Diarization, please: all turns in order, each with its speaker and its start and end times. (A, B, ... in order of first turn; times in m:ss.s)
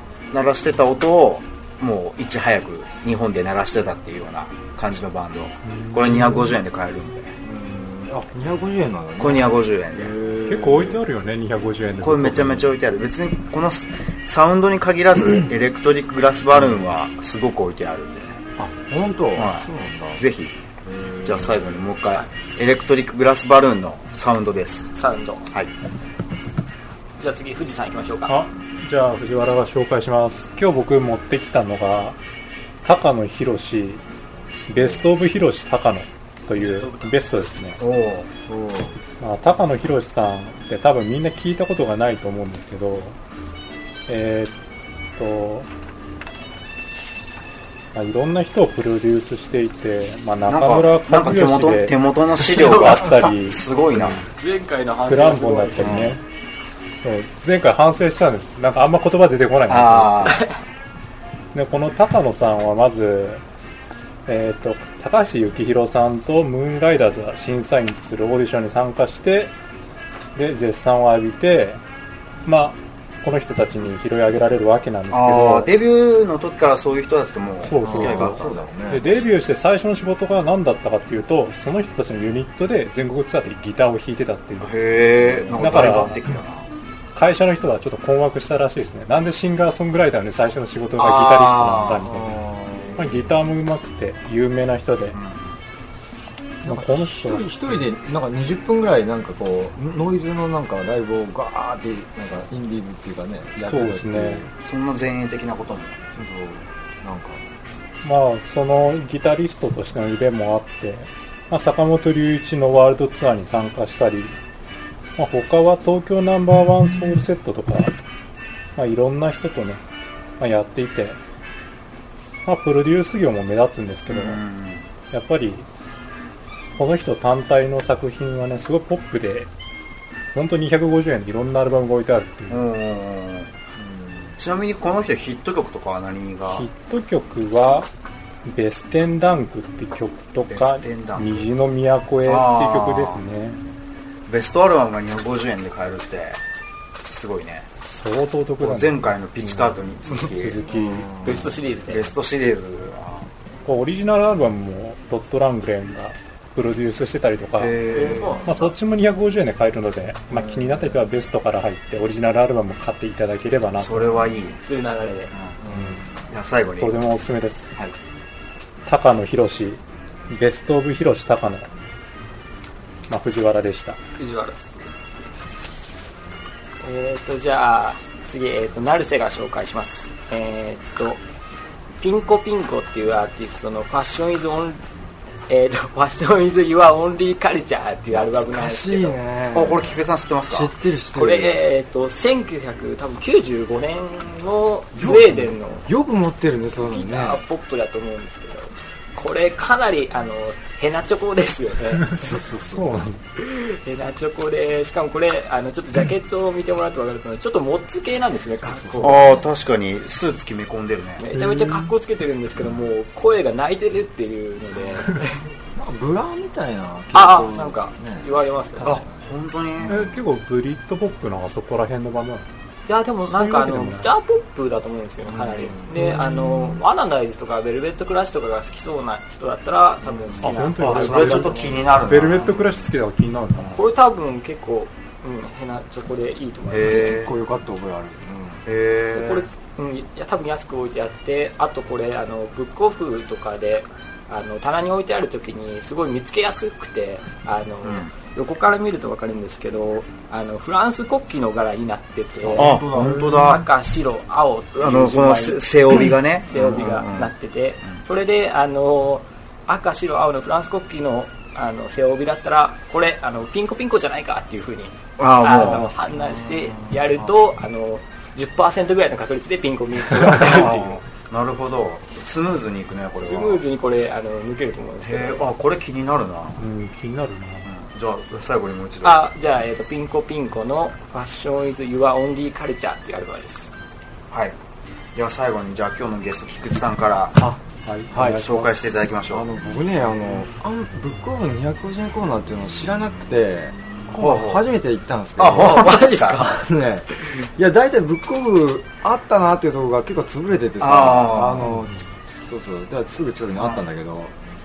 0:00.3-0:07.3 A
0:05.6-0:06.5 B
0:07.4-0:11.0 C
0:09.2-0:10.1 A
0:10.4-0:12.8 B
0:12.0-0:18.4 A
0:18.6-0:20.2 C
0:19.3-0:19.6 A
0:20.2-0:20.5 A
0:20.8-0:21.6 C
0:21.2-0:24.9 A
0:24.9-0:25.5 D
0:27.2-0:28.3 D
0:28.3-0:32.2 B
0:32.8-0:34.0 B
0:34.7-0:37.8 B
0:36.6-0:37.2 D
0:37.8-0:38.3 A
0:38.5-0:38.9 C
0:39.2-0:43.2 B
0:44.1-0:44.5 B
0:45.2-0:45.7 B
0:47.9-0:54.3 B
0:50.5-0:54.2 A
0:52.4-0:53.2 D
0:54.3-0:56.1 D
0:55.0-0:56.2 B
0:55.8-0:56.1 A
0:57.0-1:00.4 B
0:59.7-1:00.5 A
1:01.5-1:03.4 B
1:04.2-1:09.5 B
1:10.3-1:11.8 B
1:12.4-1:15.7 B
1:15.1-1:18.6 A
1:17.7-1:24.7 B
1:17.8-1:19.2 C
1:24.6-1:26.7 A
1:25.2-1:26.2 C
1:25.6-1:26.2 B
1:27.2-1:32.4 B
1:31.0-1:32.1 A
1:32.1-1:33.3 C
1:33.0-1:35.2 B
1:35.1-1:35.5 A
1:36.6-1:44.5 C
1:36.7-1:37.8 B
1:43.6-1:44.4 B
1:44.6-1:46.0 A
1:46.1-1:47.5 C
1:48.0-1:54.4 B
1:55.2-1:57.9 B
1:58.8-1:59.8 B
2:00.4-2:01.2 B
2:02.5-2:04.4 B
2:04.1-2:04.8 A
2:05.1-2:05.7 B
2:06.8-2:09.5 B
2:10.3-2:12.6 B
2:12.5-2:13.7 A
2:14.4-2:16.7 A
2:16.5-2:17.9 B
2:18.5-2:23.6 B
2:20.5-2:21.4 A
2:22.2-2:23.2 A
2:24.3-2:26.4 A
2:27.0-2:27.7 A
2:27.8-2:31.1 B
2:28.6-2:30.7 A
2:30.7-2:31.5 C
2:31.2-2:32.2 D
2:31.9-2:33.3 A
2:33.6-2:44.2 B
2:37.6-2:38.6 A
2:37.9-2:38.7 D
2:40.3-2:40.9 C
2:43.7-2:44.6 A
2:44.6-2:45.3 D
2:45.3-2:45.6 A
2:45.6-2:46.0 C
2:45.7-2:46.0 B
2:46.3-2:46.9 A
2:46.8-2:47.7 B
2:48.8-2:51.7 B
2:53.1-2:54.0 B
2:54.2-2:54.8 D
2:56.8-3:01.2 D
3:02.0-3:04.8 D
3:05.5-3:09.2 D
3:08.1-3:11.6 C
3:09.5-3:10.7 A
3:11.1-3:15.9 D
3:15.0-3:17.4 C
3:16.8-3:22.3 D
3:22.0-3:23.2 B
3:22.1-3:23.1 C
3:23.3-3:29.4 D
3:28.6-3:29.5 C
3:29.0-3:31.2 A
3:31.2-3:35.4 D
3:31.3-3:31.9 B
3:35.7-3:39.2 C
3:37.1-3:39.0 D
3:38.8-3:40.0 A
3:39.8-3:40.2 C
3:39.8-3:42.5 B
3:42.9-3:51.8 D
3:43.3-3:44.1 B
3:45.3-3:46.1 C
3:46.0-3:46.8 B
3:50.1-3:52.7 A
3:50.4-3:53.8 B
3:53.7-3:57.2 D
3:56.7-3:57.3 A
3:56.8-3:58.6 C
3:58.7-3:59.5 A
3:59.1-4:31.0 D
4:12.4-4:13.6 C
4:12.6-4:13.7 A
4:14.8-4:17.3 A
4:25.2-4:25.9 A
4:30.2-4:33.6 A
4:33.2-4:35.5 D
4:35.0-4:36.6 A
4:36.6-4:37.7 B
4:37.6-4:39.3 A
4:39.0-4:43.7 D
4:45.1-4:47.4 A
4:47.4-4:48.7 C
4:47.8-4:48.3 B
4:48.1-4:49.5 A
4:49.3-5:04.4 C
4:54.1-4:54.7 A
4:55.4-4:56.4 A
4:55.5-4:56.5 D
5:00.8-5:01.7 A